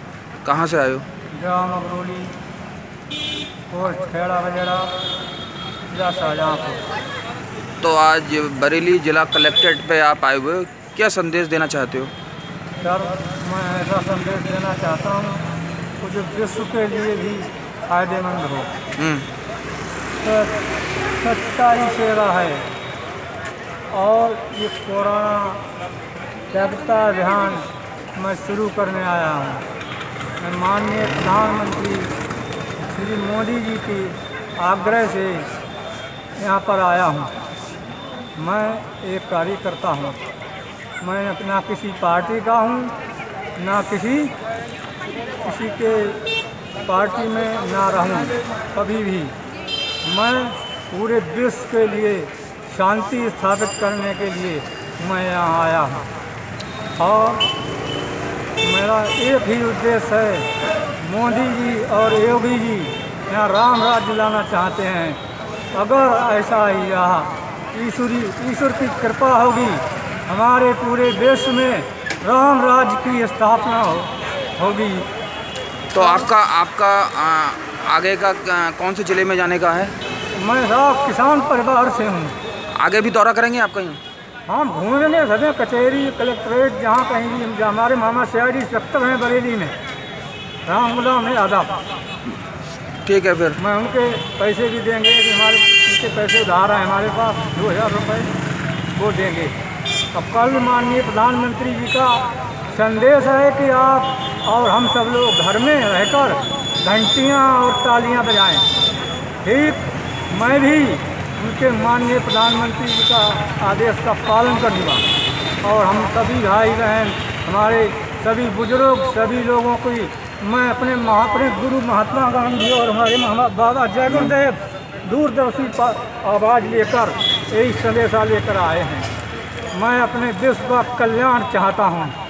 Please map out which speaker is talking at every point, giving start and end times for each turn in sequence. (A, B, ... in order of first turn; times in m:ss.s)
0:00.4-0:01.0 A
0:01.3-0:02.3 B
0:03.7-0:05.0 B
0:05.9-0:06.8 B
0:07.8-0:12.1 A
0:12.8-0:15.4 B
0:16.0-0:18.7 B
0:19.0-0:19.3 A
0:20.2-0:20.7 B
0:21.2-0:22.7 B
0:23.9-0:25.6 B
0:26.5-0:29.6 B
0:30.4-0:32.1 B
0:32.8-0:35.5 B
0:36.4-0:37.3 B
0:38.4-0:40.2 B
0:41.0-0:42.9 B
0:43.6-0:44.3 B
0:45.4-0:46.3 B
0:46.8-0:49.4 B
0:50.0-0:56.0 B
0:57.0-0:57.5 B
0:58.6-1:05.2 B
1:05.7-1:15.1 B
1:15.9-1:19.9 A
1:16.0-1:16.2 B
1:20.3-1:22.4 B
1:22.8-1:24.0 A
1:24.5-1:29.8 B
1:30.6-1:31.8 B
1:33.0-1:33.6 A
1:33.6-1:38.3 B
1:38.9-1:39.6 B
1:40.1-1:48.7 B
1:49.4-1:55.0 B
1:55.6-2:09.1 B
2:04.1-2:04.3 A
2:09.7-2:12.2 B